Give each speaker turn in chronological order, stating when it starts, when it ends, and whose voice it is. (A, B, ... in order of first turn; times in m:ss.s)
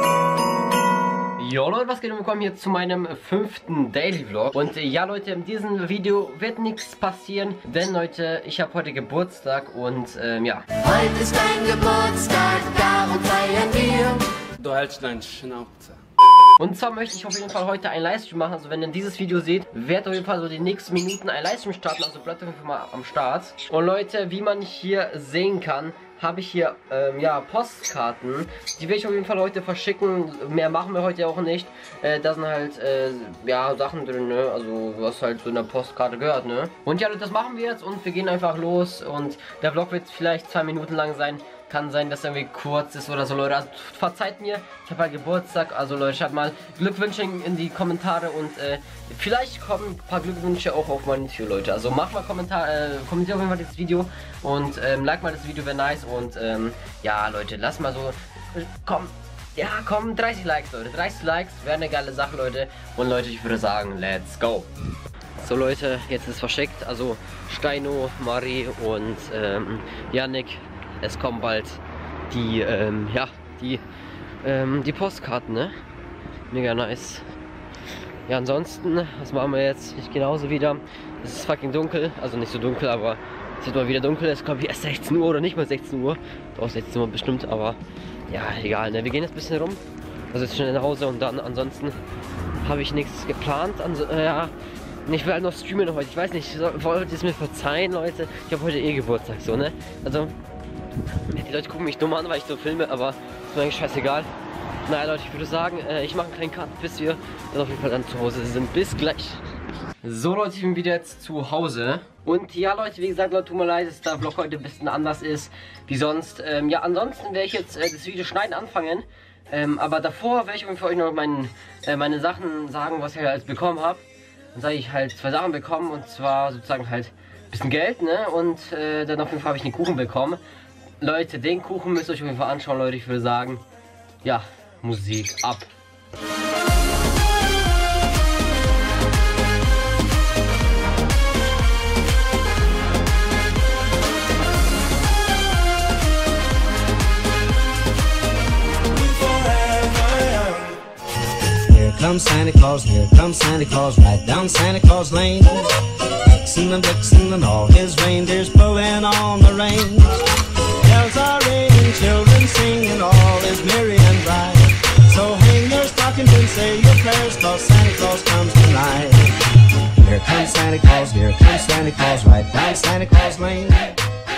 0:01.4-0:10.8 A
0:10.8-0:14.4 B
0:14.6-0:16.0 C
0:16.6-1:04.7 A
1:05.4-1:13.8 A
1:14.4-1:15.7 A
1:16.5-1:17.2 A
1:18.3-1:27.8 A
1:28.3-1:32.0 A
1:32.6-1:34.5 A
1:35.0-1:40.3 A
1:41.2-1:44.3 A
1:44.9-1:49.4 A
1:50.0-2:10.4 A
2:11.0-2:13.6 A
2:14.2-2:15.7 A
2:28.9-2:30.6 D
2:29.2-2:30.4 C
2:31.5-2:54.0 D